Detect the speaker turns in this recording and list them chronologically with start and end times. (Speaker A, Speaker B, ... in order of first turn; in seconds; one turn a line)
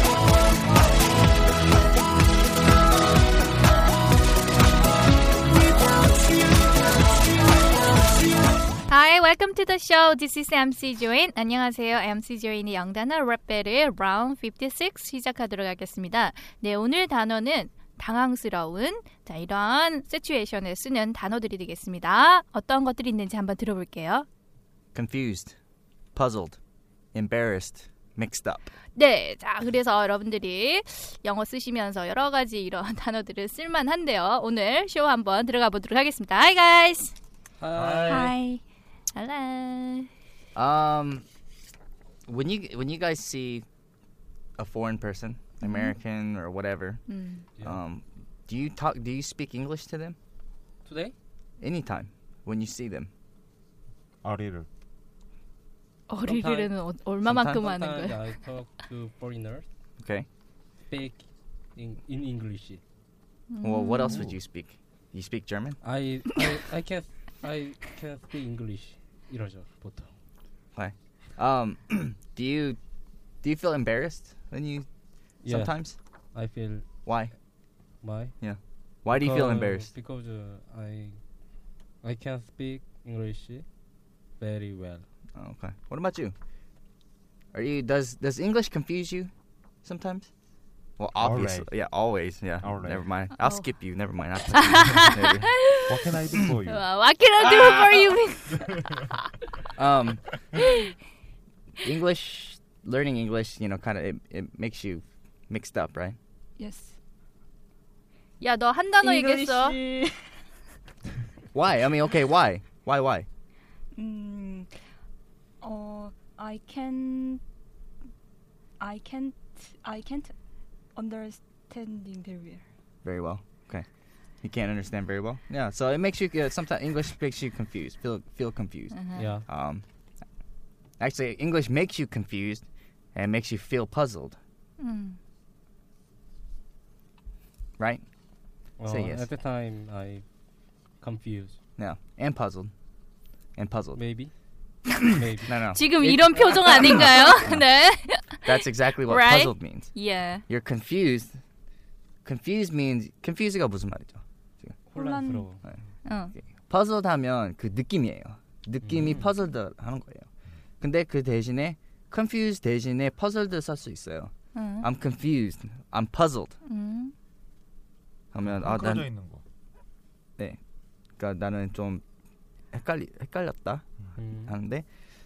Speaker A: 8.9-24.2
Speaker B: 24.9-25.6
Speaker B: 26.1-26.6
Speaker B: 27.1-28.7
Speaker A: 28.9-37.1
Speaker C: 37.6-38.4
Speaker D: 37.7-38.4
Speaker E: 38.1-38.6
Speaker A: 39.1-40.1
Speaker B: 40.5-41.2
Speaker B: 42.3-43.6
Speaker B: 44.6-47.0
Speaker A: 45.6-45.9
Speaker A: 47.1-47.5
Speaker B: 47.6-50.2
Speaker C: 50.8-51.1
Speaker B: 51.6-53.1
Speaker D: 54.2-54.7
Speaker A: 56.1-58.2
Speaker C: 56.2-56.7
Speaker B: 57.2-57.7
Speaker C: 57.4-59.7
Speaker B: 60.0-60.3
Speaker C: 60.9-61.2
Speaker C: 61.7-62.8
Speaker A: 63.5-64.3
Speaker B: 63.6-65.8
Speaker C: 65.8-70.1
Speaker B: 70.8-72.8
Speaker B: 73.4-74.9
Speaker C: 75.4-75.8
Speaker B: 75.5-76.0
Speaker C: 76.3-76.8
Speaker B: 77.0-77.3
Speaker C: 78.0-78.3
Speaker B: 78.4-79.9
Speaker C: 79.1-81.2
Speaker C: 82.0-83.6
Speaker C: 84.4-85.0
Speaker B: 85.3-86.3
Speaker B: 87.5-89.3
Speaker B: 89.8-90.3
Speaker B: 91.0-95.6
Speaker D: 91.2-91.7
Speaker D: 92.6-93.0
Speaker A: 93.4-93.7
Speaker A: 94.5-96.0
Speaker D: 95.9-96.8
Speaker A: 96.7-99.0
Speaker D: 97.6-98.0
Speaker B: 99.8-100.3
Speaker A: 100.6-100.9
Speaker B: 101.8-106.2
Speaker E: 106.6-107.0
Speaker A: 108.4-109.8
Speaker E: 109.0-110.3
Speaker B: 111.5-113.3
Speaker E: 113.9-114.7
Speaker E: 115.6-117.4
Speaker E: 118.8-120.3
Speaker E: 120.9-122.7
Speaker B: 123.0-123.8
Speaker B: 124.4-129.8
Speaker A: 128.9-129.3
Speaker C: 129.1-129.4
Speaker B: 131.0-134.4
Speaker A: 134.8-135.2
Speaker B: 137.8-138.0
Speaker C: 138.8-140.2
Speaker B: 138.8-139.3
Speaker C: 141.0-141.6
Speaker B: 141.8-142.7
Speaker B: 143.6-144.0
Speaker C: 143.9-144.3
Speaker C: 144.9-145.6
Speaker B: 145.5-146.9
Speaker A: 145.7-150.4
Speaker B: 148.4-151.4
Speaker B: 152.2-154.8
Speaker E: 154.9-155.5
Speaker C: 154.9-155.6
Speaker A: 156.0-156.3
Speaker B: 156.3-160.3
Speaker C: 158.8-159.3
Speaker B: 160.8-166.6
Speaker A: 164.5-164.8
Speaker A: 166.7-167.1
Speaker B: 168.3-169.1
Speaker D: 168.4-169.4
Speaker B: 171.2-172.0
Speaker B: 172.7-174.8
Speaker C: 174.2-174.5